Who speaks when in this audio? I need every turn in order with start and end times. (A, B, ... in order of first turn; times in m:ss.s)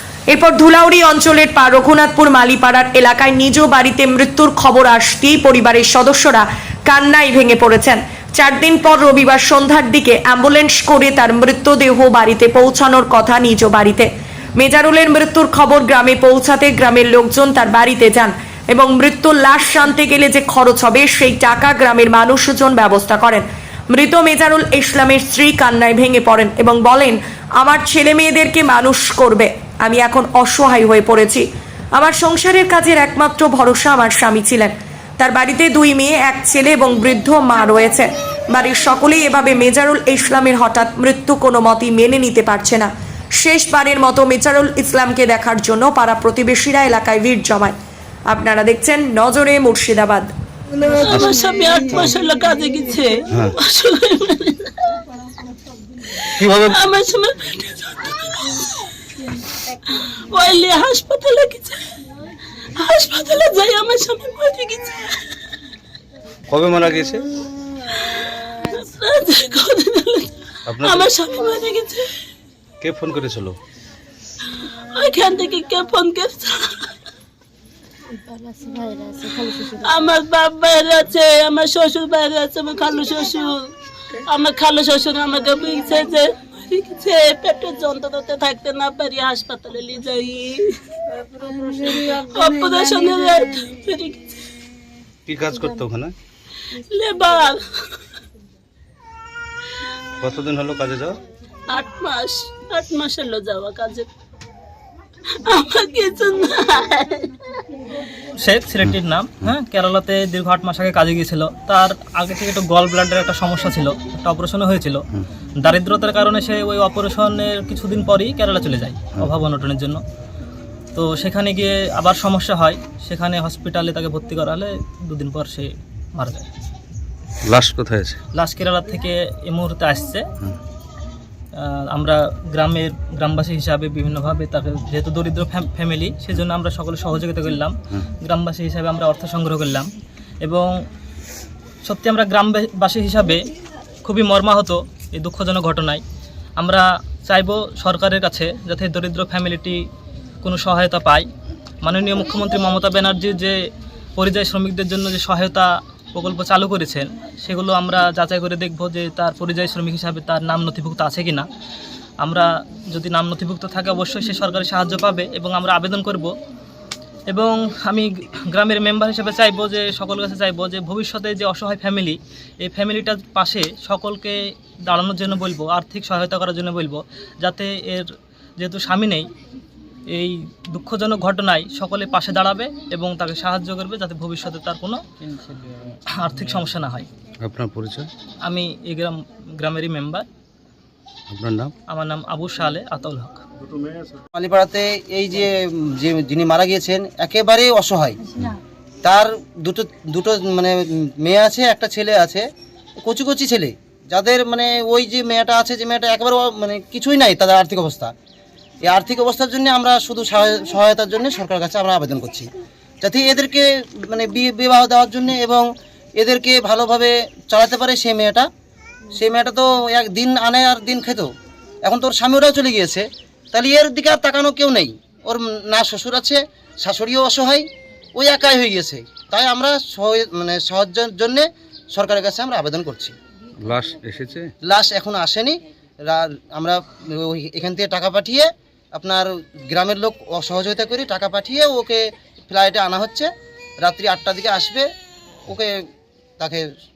0:00.3-0:47.7 A
0:48.3-0:50.3 A
0:50.9-0:55.0 B
0:56.1-0:58.9 B
0:59.8-1:01.9 B
1:02.8-1:05.3 B
1:06.5-1:07.2 C
1:08.0-1:12.2 B
1:10.7-1:11.1 C
1:12.8-1:13.6 C
1:14.6-1:17.0 B
1:18.8-1:23.7 B
1:24.2-1:30.8 B
1:31.7-1:34.5 B
1:35.2-1:36.1 C
1:36.9-1:38.0 B
1:40.2-1:41.2 C
1:41.7-1:44.1 B
1:45.3-1:47.3 B
1:48.4-1:55.0 D
1:55.6-2:00.0 D
2:00.9-2:06.5 D
2:07.4-2:08.2 C
2:08.3-2:10.2 D
2:11.6-2:19.9 D
2:20.4-2:20.8 D
2:21.8-2:23.5 D
2:24.0-2:26.0 D
2:26.6-2:29.8 D
2:30.4-2:31.2 D
2:31.8-2:33.6 D
2:34.2-2:41.4 D
2:42.2-2:46.3 D
2:47.3-2:59.3 D
3:00.1-3:05.0 D
3:06.2-3:07.1 D
3:07.4-3:08.1 C
3:08.4-3:10.2 D
3:11.3-3:11.7 C
3:11.9-3:13.4 D
3:14.3-3:18.3 E
3:19.0-3:22.4 E
3:23.0-3:28.1 E
3:28.8-3:32.5 E
3:33.0-3:38.5 E
3:39.1-3:41.3 E
3:41.8-3:53.1 E
3:53.6-3:54.5 C
3:54.6-4:03.3 E
4:03.8-4:04.9 E
4:05.5-4:05.8 E
4:06.4-4:06.7 E